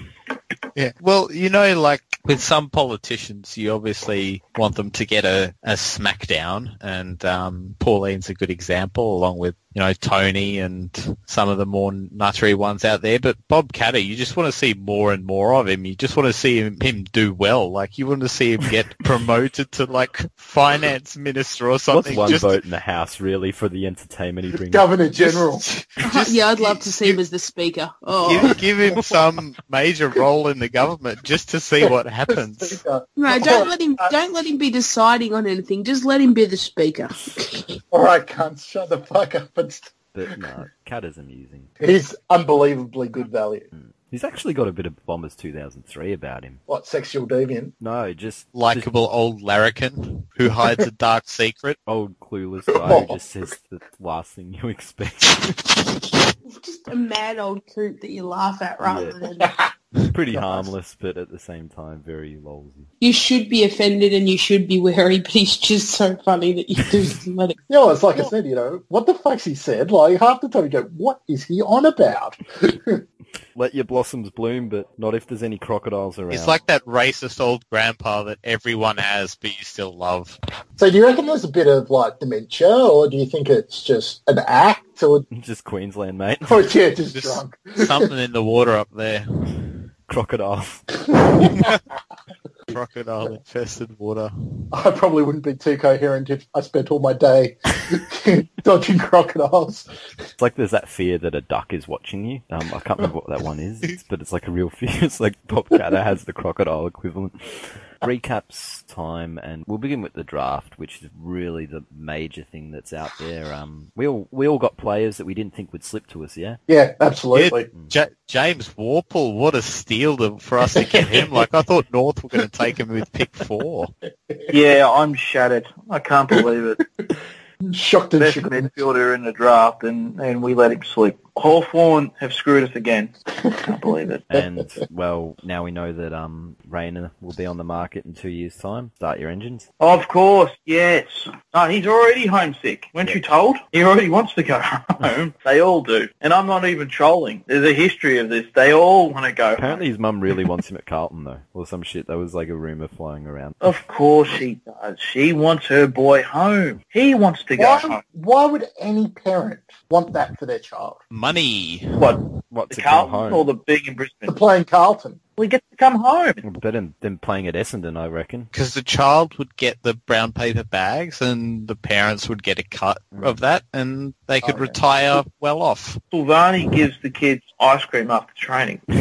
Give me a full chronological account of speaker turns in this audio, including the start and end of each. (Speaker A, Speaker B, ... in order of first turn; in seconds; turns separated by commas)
Speaker A: 0.8-22.6, Speaker B: 21.9-24.9, Speaker C: 24.6-25.7, Speaker A: 25.6-27.2, Speaker D: 26.0-28.6, Speaker A: 28.2-32.8, Speaker C: 31.9-34.1, Speaker D: 33.2-37.6, Speaker C: 37.9-39.9, Speaker B: 40.1-41.7, Speaker C: 41.8-43.7, Speaker B: 43.7-46.6, Speaker C: 46.7-47.7, Speaker B: 47.8-48.9, Speaker A: 48.5-51.8, Speaker B: 51.9-55.9, Speaker C: 52.7-53.2, Speaker D: 56.5-59.5, Speaker B: 58.8-59.2, Speaker B: 60.1-62.9, Speaker C: 60.4-60.7, Speaker D: 63.0-67.6, Speaker C: 67.7-73.0, Speaker B: 73.6-76.6, Speaker A: 76.3-80.4, Speaker C: 80.8-85.3, Speaker B: 85.3-86.7, Speaker C: 86.5-88.1, Speaker A: 87.1-89.7, Speaker B: 90.1-90.8, Speaker C: 91.2-91.7, Speaker A: 91.4-91.8, Speaker A: 92.7-94.3, Speaker C: 94.7-99.9, Speaker B: 100.4-116.6, Speaker C: 116.7-117.7, Speaker A: 117.3-123.9, Speaker C: 120.8-121.3, Speaker E: 124.5-126.8, Speaker C: 127.6-128.7, Speaker E: 128.2-133.1, Speaker C: 133.5-133.7, Speaker E: 133.7-134.2, Speaker B: 134.3-139.7, Speaker E: 139.8-149.8, Speaker B: 149.6-153.7, Speaker E: 153.6-158.0, Speaker C: 157.6-161.0, Speaker A: 161.1-162.2, Speaker E: 162.0-164.3, Speaker B: 162.5-163.5, Speaker C: 164.3-165.2, Speaker E: 165.4-166.4, Speaker B: 166.4-168.5, Speaker A: 168.5-176.0, Speaker B: 173.1-173.4, Speaker C: 174.4-174.8, Speaker E: 176.1-178.8